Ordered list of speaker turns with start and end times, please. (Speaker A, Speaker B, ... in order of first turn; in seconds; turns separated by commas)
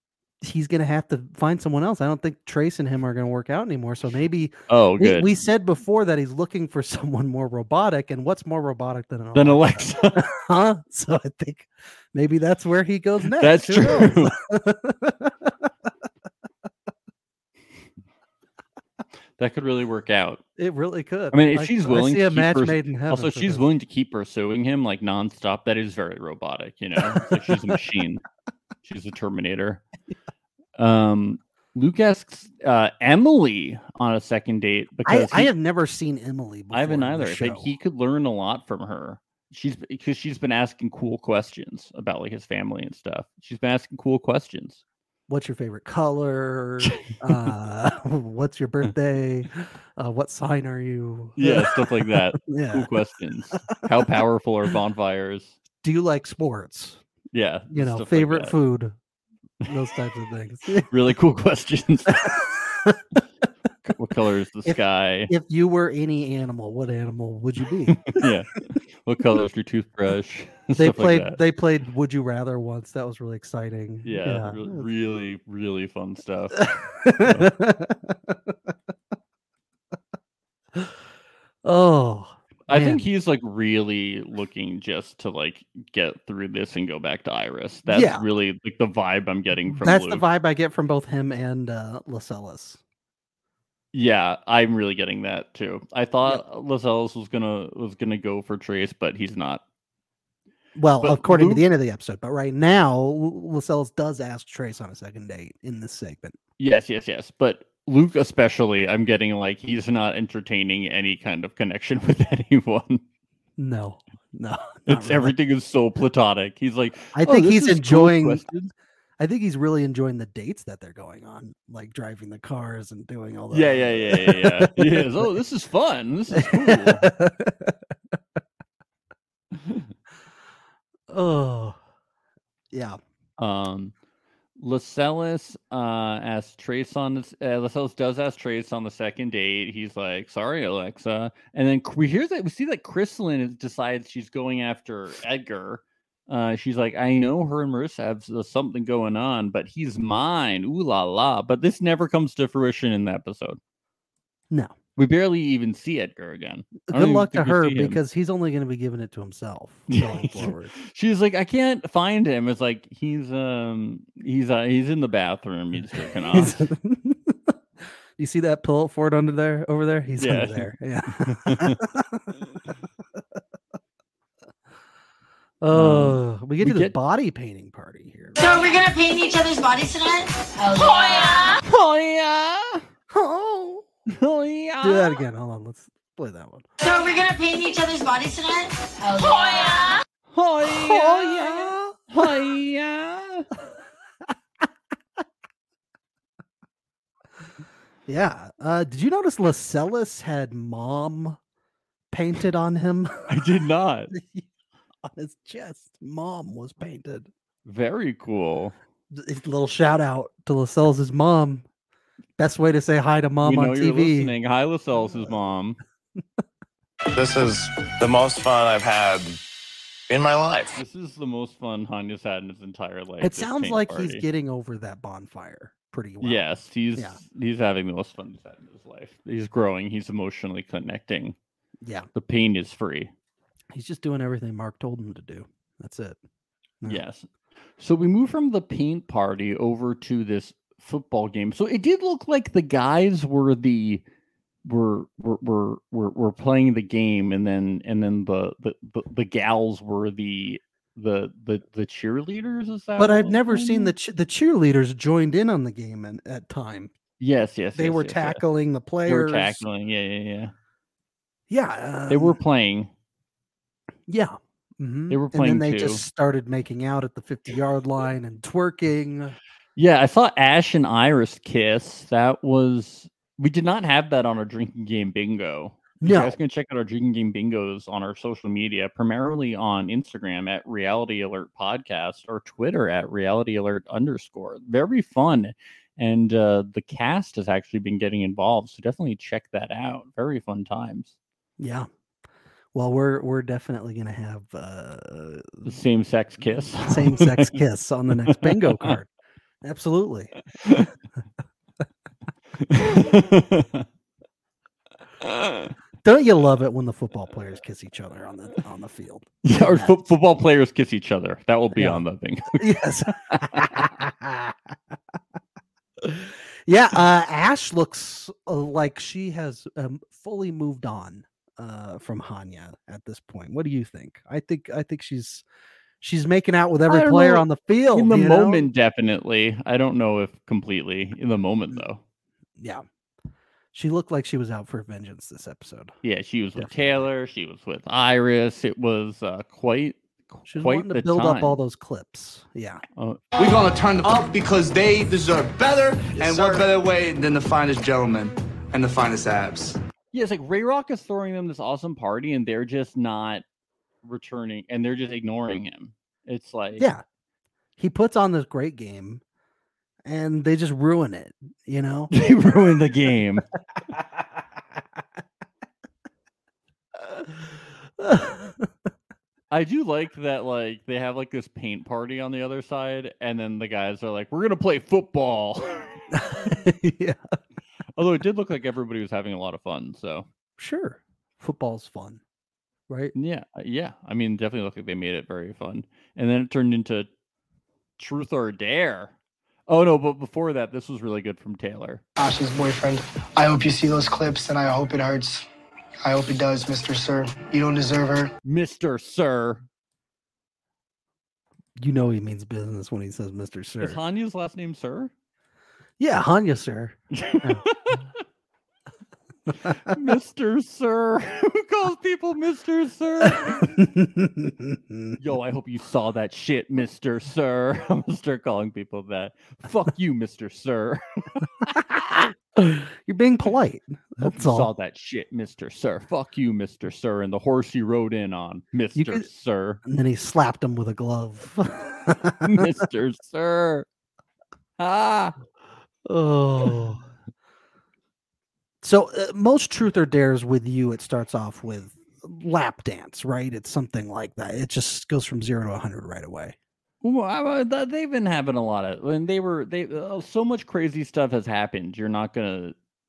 Speaker A: 0.4-15.5, Speaker B: 4.7-5.3, Speaker B: 9.3-10.3, Speaker B: 13.4-14.3, Speaker B: 19.4-20.4, Speaker A: 20.6-23.6, Speaker B: 21.3-28.2, Speaker A: 27.0-27.8, Speaker B: 28.8-29.8, Speaker B: 30.8-35.5, Speaker A: 35.0-37.7, Speaker B: 36.7-44.8, Speaker A: 45.3-52.9, Speaker B: 51.4-55.6, Speaker A: 55.8-57.0, Speaker B: 57.3-58.6, Speaker A: 57.7-59.0, Speaker A: 59.7-60.9, Speaker B: 60.9-62.3, Speaker A: 62.1-63.2, Speaker B: 63.9-65.3, Speaker A: 64.7-68.3, Speaker B: 68.1-71.4, Speaker A: 70.8-74.9, Speaker B: 74.0-76.6, Speaker A: 76.6-78.5, Speaker B: 77.2-77.5, Speaker A: 81.6-83.0, Speaker B: 82.7-90.2, Speaker A: 87.9-88.2, Speaker A: 89.7-92.8, Speaker B: 93.9-99.6, Speaker A: 100.8-106.4, Speaker B: 101.0-101.7, Speaker B: 106.6-113.0, Speaker A: 113.6-115.3, Speaker B: 114.9-118.7, Speaker A: 117.1-118.5, Speaker A: 119.2-125.1, Speaker B: 123.5-127.1, Speaker A: 126.3-127.8, Speaker B: 129.5-129.9, Speaker A: 131.1-131.8, Speaker A: 132.7-133.0, Speaker B: 133.4-133.9, Speaker B: 134.6-153.6, Speaker B: 155.0-158.0, Speaker A: 156.9-160.8, Speaker B: 159.9-166.7, Speaker A: 165.9-167.5, Speaker A: 168.2-172.4, Speaker B: 170.2-170.7, Speaker B: 171.2-171.8, Speaker A: 175.6-178.4, Speaker B: 175.7-176.9, Speaker C: 178.4-181.6, Speaker B: 181.6-182.8, Speaker A: 183.1-183.9, Speaker B: 184.1-185.2, Speaker A: 184.8-186.7, Speaker C: 186.8-190.0, Speaker B: 190.3-193.5, Speaker A: 190.6-192.3, Speaker A: 198.1-201.4, Speaker A: 202.1-203.3, Speaker B: 203.3-204.1, Speaker A: 204.1-204.5, Speaker A: 205.1-207.3, Speaker B: 207.7-208.8, Speaker A: 209.1-211.7, Speaker A: 212.4-214.4, Speaker B: 213.4-215.8, Speaker A: 215.3-215.5, Speaker D: 217.1-219.4, Speaker D: 220.1-220.7, Speaker B: 220.8-224.2, Speaker A: 223.2-227.2, Speaker B: 226.2-231.4, Speaker A: 231.8-232.1, Speaker B: 232.1-233.1, Speaker A: 233.7-236.2, Speaker B: 236.9-237.3, Speaker B: 237.8-244.0, Speaker B: 244.7-253.9, Speaker A: 253.0-256.9, Speaker B: 257.2-258.4, Speaker A: 257.8-259.6, Speaker B: 259.1-260.5, Speaker A: 261.5-262.4, Speaker B: 262.1-262.9, Speaker A: 264.1-269.4, Speaker B: 265.1-266.0, Speaker B: 269.8-291.1, Speaker A: 276.0-276.4, Speaker A: 291.6-291.9, Speaker A: 292.7-295.7, Speaker B: 295.6-297.6, Speaker A: 296.8-299.1, Speaker B: 298.2-298.9, Speaker A: 299.6-300.3, Speaker B: 300.6-300.9, Speaker B: 302.6-303.9, Speaker B: 305.2-305.7, Speaker A: 306.0-310.0, Speaker B: 309.4-313.9, Speaker A: 311.7-314.6, Speaker A: 316.0-325.4, Speaker A: 326.0-328.7, Speaker B: 326.9-332.0, Speaker A: 332.6-332.8, Speaker A: 333.7-335.9, Speaker B: 336.0-341.6, Speaker A: 336.6-337.0, Speaker A: 340.5-342.8, Speaker E: 343.4-349.8, Speaker B: 350.1-353.4, Speaker B: 354.0-356.9, Speaker A: 356.8-357.0, Speaker A: 357.8-359.2, Speaker A: 360.1-362.1, Speaker B: 362.1-363.4, Speaker A: 367.1-368.7, Speaker B: 369.5-375.9, Speaker A: 376.1-377.2, Speaker B: 378.0-380.3, Speaker A: 380.6-382.2, Speaker A: 382.9-383.1, Speaker B: 383.1-387.1, Speaker B: 388.0-389.1, Speaker B: 389.7-392.0, Speaker F: 392.2-395.5, Speaker F: 396.0-398.3, Speaker B: 398.4-399.6, Speaker A: 401.8-404.0, Speaker B: 403.8-405.1, Speaker A: 406.0-407.6, Speaker B: 407.1-408.0, Speaker B: 409.6-413.8, Speaker A: 413.5-415.1, Speaker B: 415.2-421.7, Speaker A: 421.8-424.7, Speaker B: 424.2-429.8, Speaker A: 428.9-429.3, Speaker A: 429.8-432.7, Speaker B: 432.4-433.9, Speaker B: 434.8-435.4, Speaker A: 436.1-437.0, Speaker A: 438.8-446.6, Speaker B: 447.0-452.8